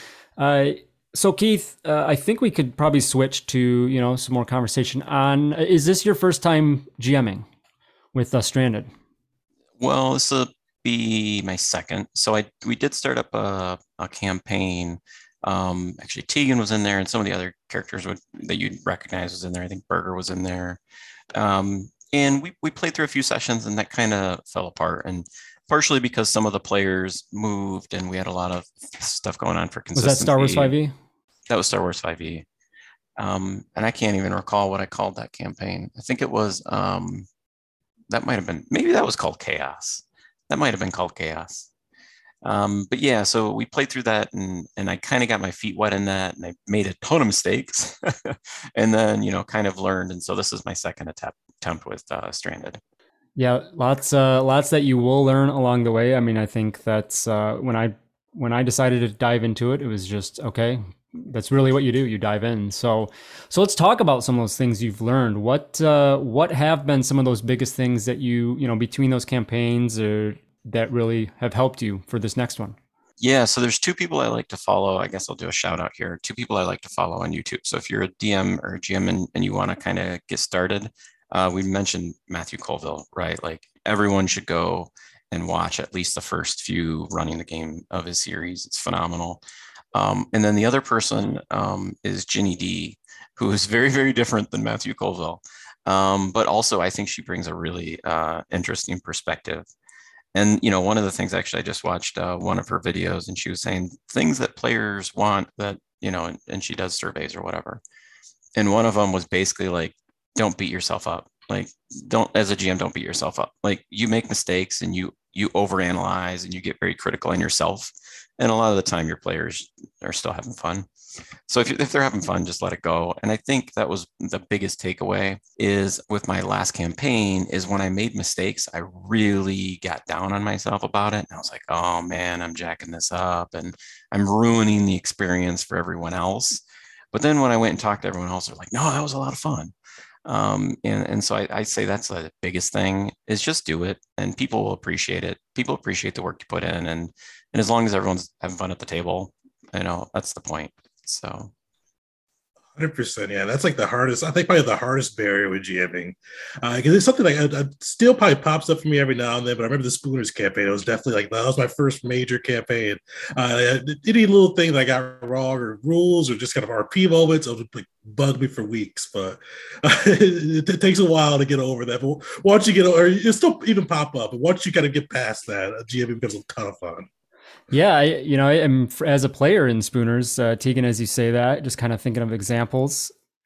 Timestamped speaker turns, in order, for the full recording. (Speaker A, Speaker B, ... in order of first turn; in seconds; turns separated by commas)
Speaker A: 0.4-7.5, Speaker A: 8.1-8.9, Speaker B: 9.8-20.8, Speaker B: 21.3-30.7, Speaker A: 29.9-30.9, Speaker B: 31.5-32.4, Speaker B: 33.2-37.3, Speaker B: 38.1-41.7, Speaker B: 42.4-52.8, Speaker A: 53.4-72.8, Speaker B: 73.2-89.4, Speaker B: 89.9-99.7, Speaker B: 100.3-107.8, Speaker B: 108.6-120.9, Speaker B: 121.5-136.6, Speaker B: 137.1-139.7, Speaker B: 140.2-151.5, Speaker C: 152.7-177.1, Speaker A: 177.7-183.1